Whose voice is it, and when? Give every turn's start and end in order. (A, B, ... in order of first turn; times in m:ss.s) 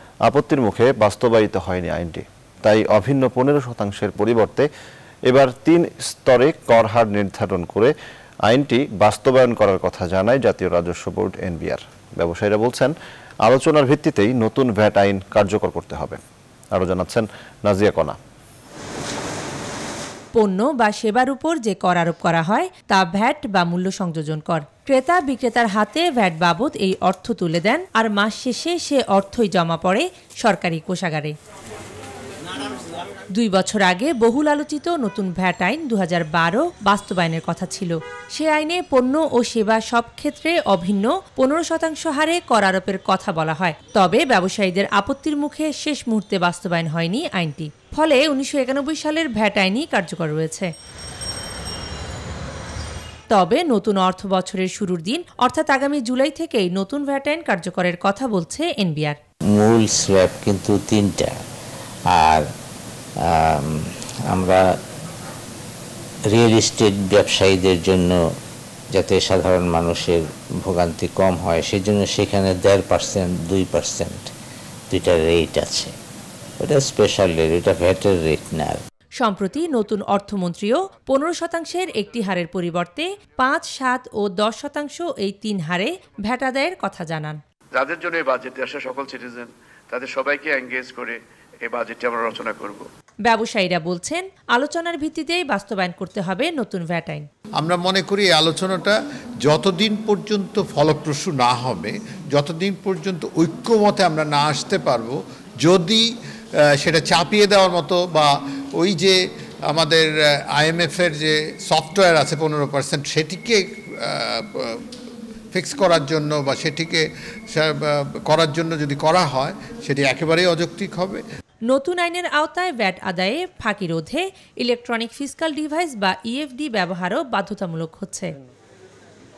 0:00.3-0:04.7 A
0:05.3-0:07.9 A
0:08.5-0:12.9 A
0:13.4-0:16.2 A
0:16.7-0:18.2 A
0:20.3-0:31.3 B
0:33.3-0:50.7 B
0:53.3-0:59.2 B
0:59.5-1:01.3 C
1:02.1-1:02.4 C
1:03.2-1:03.8 C
1:04.3-1:04.6 C
1:06.3-1:08.2 C
1:08.9-1:14.3 C
1:14.9-1:15.9 C
1:16.6-1:18.8 C
1:19.2-1:27.4 B
1:27.7-1:32.8 D
1:33.2-1:37.3 B
1:37.6-1:46.0 E
1:46.8-1:49.2 E
1:49.7-1:54.8 E
1:55.5-2:01.2 E
2:01.7-2:08.3 B